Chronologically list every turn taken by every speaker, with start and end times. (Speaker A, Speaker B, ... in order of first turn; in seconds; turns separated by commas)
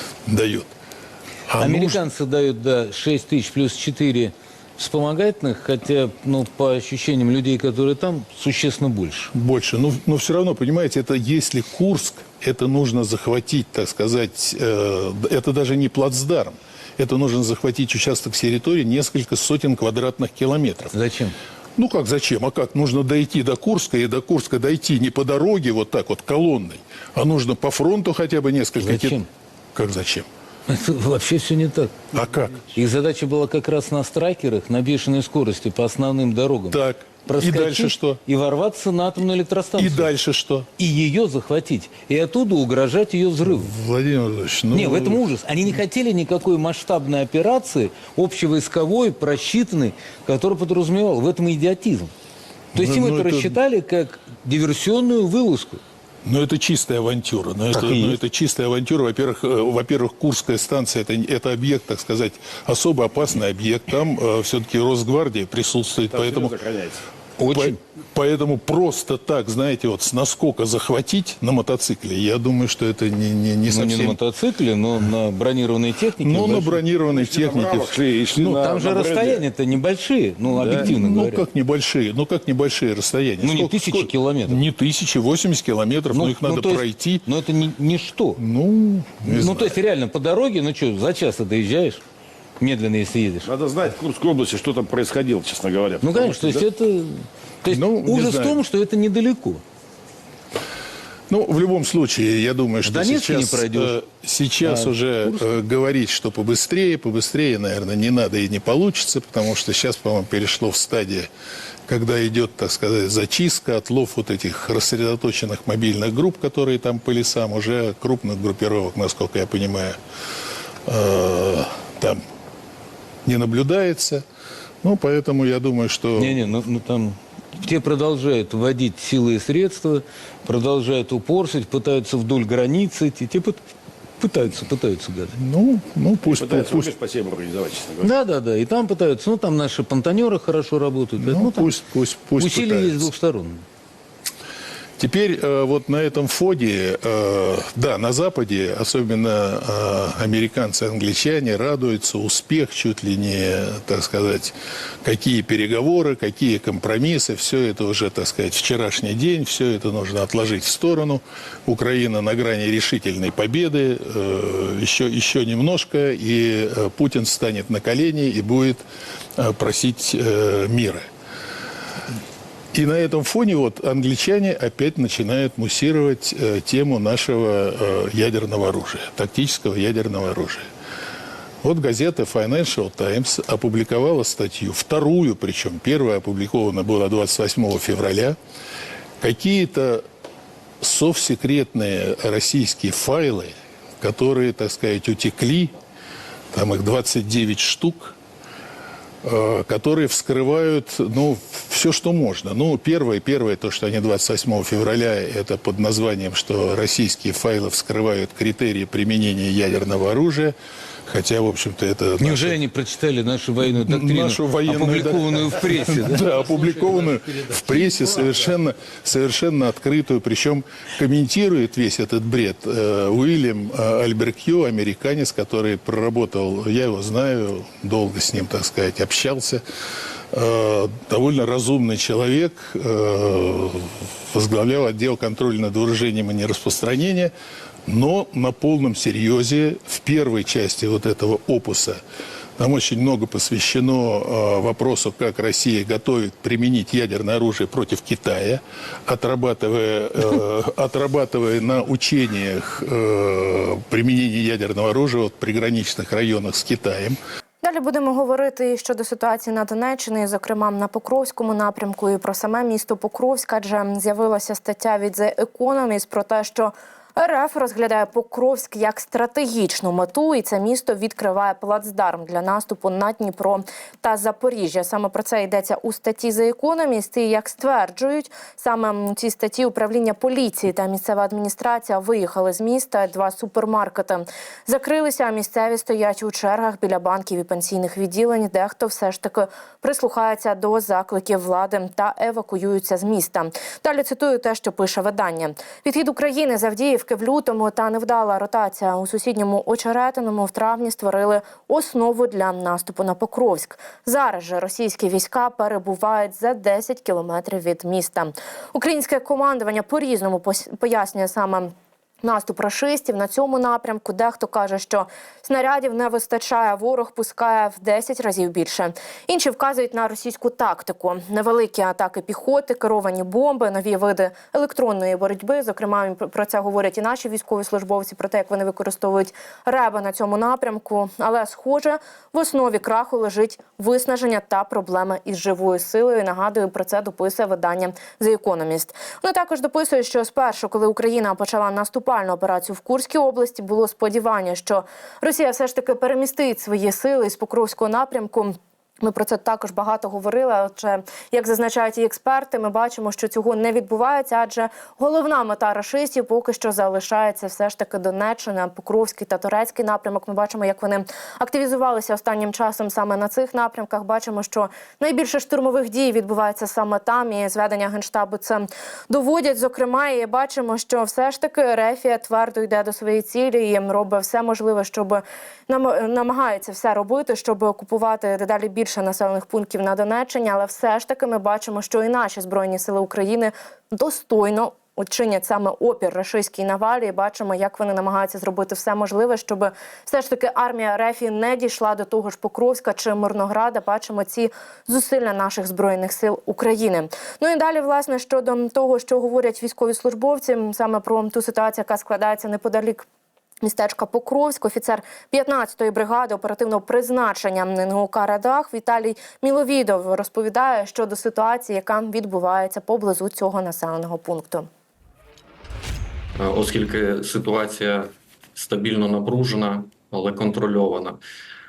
Speaker A: 0.2-0.7, Speaker A: 1.5-2.0, Speaker B: 1.6-9.3, Speaker A: 9.3-20.9, Speaker B: 20.9-21.3, Speaker A: 21.8-29.2, Speaker B: 28.8-29.3, Speaker A: 29.7-30.3, Speaker B: 30.7-32.1, Speaker A: 32.1-32.7, Speaker B: 32.7-40.1, Speaker A: 36.7-38.2, Speaker A: 39.8-40.7, Speaker B: 40.8-43.7, Speaker A: 43.5-45.2, Speaker B: 44.7-52.1, Speaker A: 52.7-53.6, Speaker B: 52.7-55.8, Speaker A: 56.2-66.6, Speaker B: 57.7-58.2, Speaker C: 66.1-67.0, Speaker B: 67.4-67.8, Speaker A: 67.5-74.2, Speaker B: 73.7-76.8, Speaker A: 76.2-78.6, Speaker C: 77.0-79.4, Speaker B: 78.5-81.5, Speaker A: 80.5-87.2, Speaker C: 80.6-80.9, Speaker B: 83.4-84.6, Speaker B: 86.1-88.4, Speaker A: 88.4-89.8, Speaker B: 89.2-92.0, Speaker B: 92.6-93.5, Speaker C: 93.4-96.7, Speaker B: 96.0-99.6, Speaker A: 97.7-98.6, Speaker A: 101.3-111.3, Speaker B: 102.8-103.9, Speaker B: 104.6-105.5, Speaker A: 111.9-120.0, Speaker A: 120.8-122.2, Speaker A: 123.2-124.2, Speaker A: 124.8-126.4, Speaker B: 126.2-133.6, Speaker B: 134.2-135.3, Speaker A: 135.3-136.9, Speaker C: 136.3-138.1, Speaker B: 138.0-141.7, Speaker A: 141.2-143.1, Speaker B: 142.4-143.6, Speaker A: 145.0-168.8, Speaker A: 169.4-171.1, Speaker A: 172.7-180.7, Speaker A: 181.6-188.4, Speaker A: 189.2-190.0, Speaker A: 190.8-195.7, Speaker A: 196.5-198.2, Speaker A: 199.2-210.5, Speaker A: 211.1-212.6, Speaker B: 212.2-216.8, Speaker A: 213.8-229.6, Speaker A: 230.3-237.3, Speaker A: 237.8-242.0, Speaker A: 242.6-257.2, Speaker D: 257.6-311.7, Speaker D: 312.2-403.1, Speaker D: 403.6-414.7, Speaker E: 416.4-421.2